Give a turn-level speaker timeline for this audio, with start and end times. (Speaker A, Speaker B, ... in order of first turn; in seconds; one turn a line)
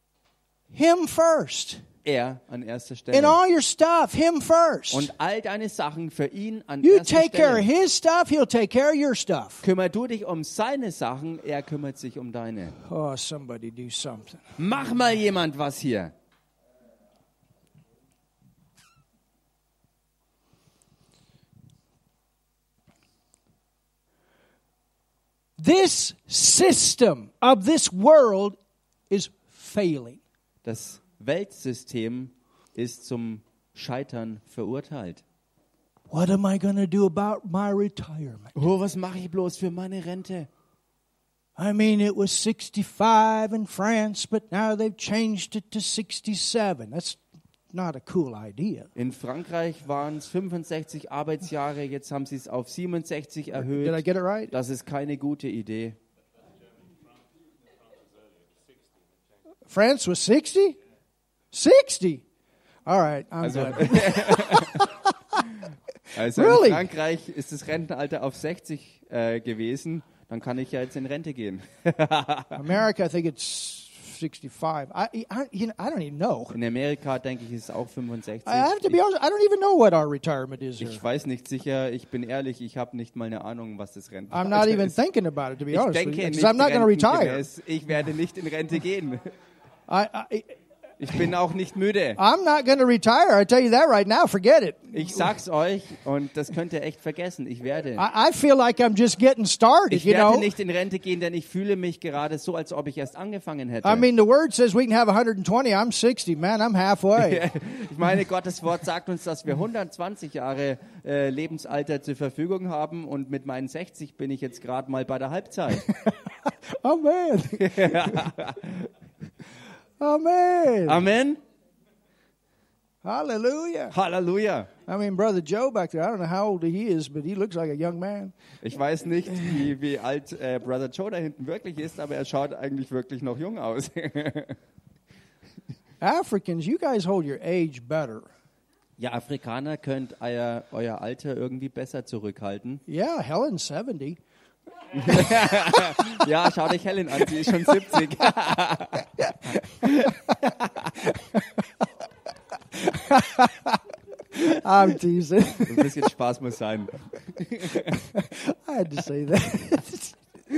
Speaker A: 0.7-1.8
Speaker B: 2.0-3.4
Speaker A: 3.1-5.1
Speaker B: 4.9-7.7
Speaker A: 6.8-9.6
Speaker B: 9.6-12.8
Speaker A: 12.8-14.4
Speaker B: 14.6-16.1
Speaker A: 25.6-28.6
Speaker A: 29.1-30.2
Speaker B: 30.6-35.2
Speaker A: 36.1-38.5
Speaker B: 38.5-40.5
Speaker A: 41.6-47.2
Speaker A: 47.7-48.9
Speaker B: 49.0-56.0
Speaker A: 53.6-54.5
Speaker A: 59.7-60.8
Speaker A: 61.5-62.2
Speaker A: 62.9-65.4
Speaker B: 63.4-64.9
Speaker A: 66.1-66.8
Speaker B: 66.2-72.6
Speaker A: 72.5-76.6
Speaker B: 76.5-79.0
Speaker A: 78.5-81.0
Speaker B: 80.8-84.9
Speaker A: 84.3-87.5
Speaker B: 85.7-89.2
Speaker A: 89.9-90.5
Speaker B: 91.0-92.2
Speaker A: 92.2-95.2
Speaker B: 94.9-98.0
Speaker A: 98.0-100.5
Speaker B: 99.9-104.0
Speaker A: 103.8-107.4
Speaker B: 107.2-115.9
Speaker A: 115.8-118.3
Speaker B: 117.6-118.9
Speaker A: 120.0-121.1
Speaker B: 120.9-121.4
Speaker A: 123.0-124.0
Speaker B: 123.9-124.7
Speaker A: 124.9-128.3
Speaker B: 128.6-134.6
Speaker A: 136.0-138.3
Speaker B: 139.0-142.8
Speaker A: 142.9-144.2
Speaker B: 144.9-151.0
Speaker A: 145.1-146.0
Speaker A: 149.2-151.4
Speaker A: 152.7-153.8
Speaker A: 154.3-156.0
Speaker B: 155.7-157.9
Speaker A: 157.7-160.2